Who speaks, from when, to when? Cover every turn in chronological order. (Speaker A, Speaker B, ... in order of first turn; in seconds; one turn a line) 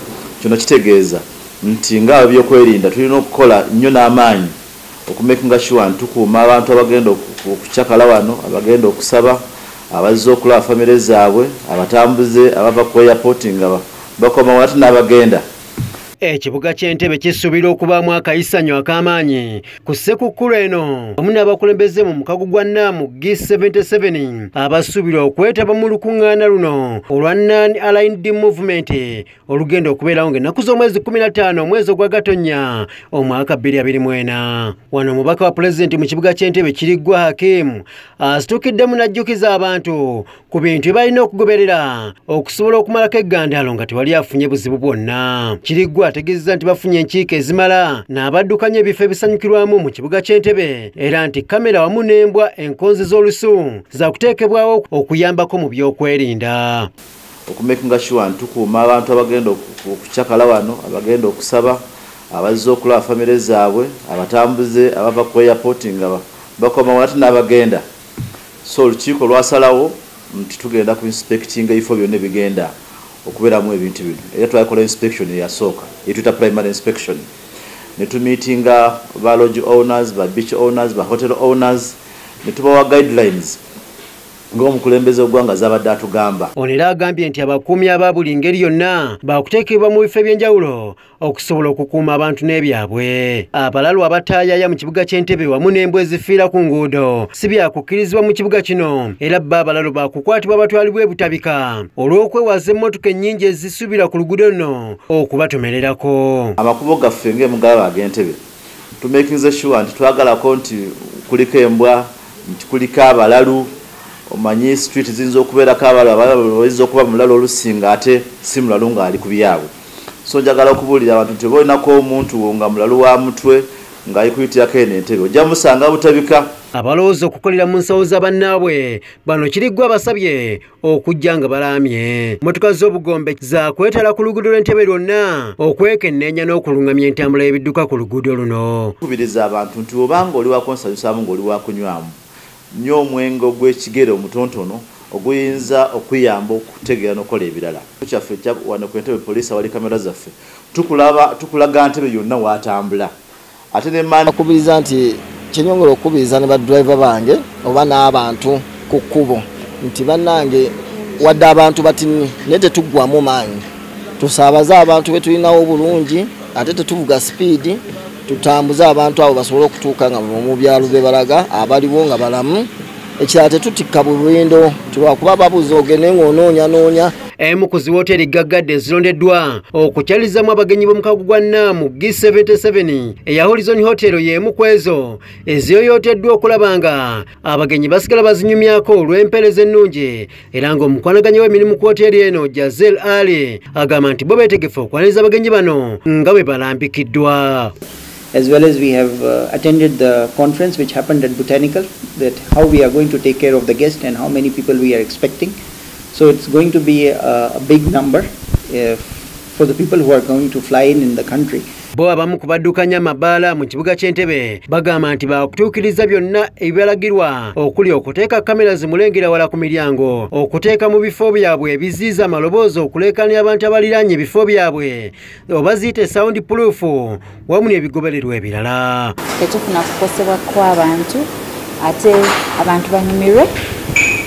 Speaker A: 0.4-4.5
Speaker A: 5.1-15.4
Speaker B: 16.2-56.9
Speaker A: 57.5-67.8
Speaker A: 68.6-72.7
Speaker A: 73.3-77.3
Speaker A: 78.0-83.6
Speaker A: 84.5-86.5
Speaker B: 86.6-106.6
Speaker A: 106.6-108.4
Speaker A: 109.0-113.7
Speaker A: 114.3-119.7
Speaker A: 120.2-126.5
Speaker B: 126.8-138.9
Speaker A: 139.0-142.2
Speaker A: 142.7-153.1
Speaker A: 153.7-154.3
Speaker C: 154.3-163.6
Speaker C: 164.2-177.1
Speaker B: 177.4-197.7
Speaker D: 198.3-205.6
Speaker D: 206.1-211.7
Speaker B: 211.9-229.2
Speaker E: 229.5-231.2
Speaker E: 231.8-233.4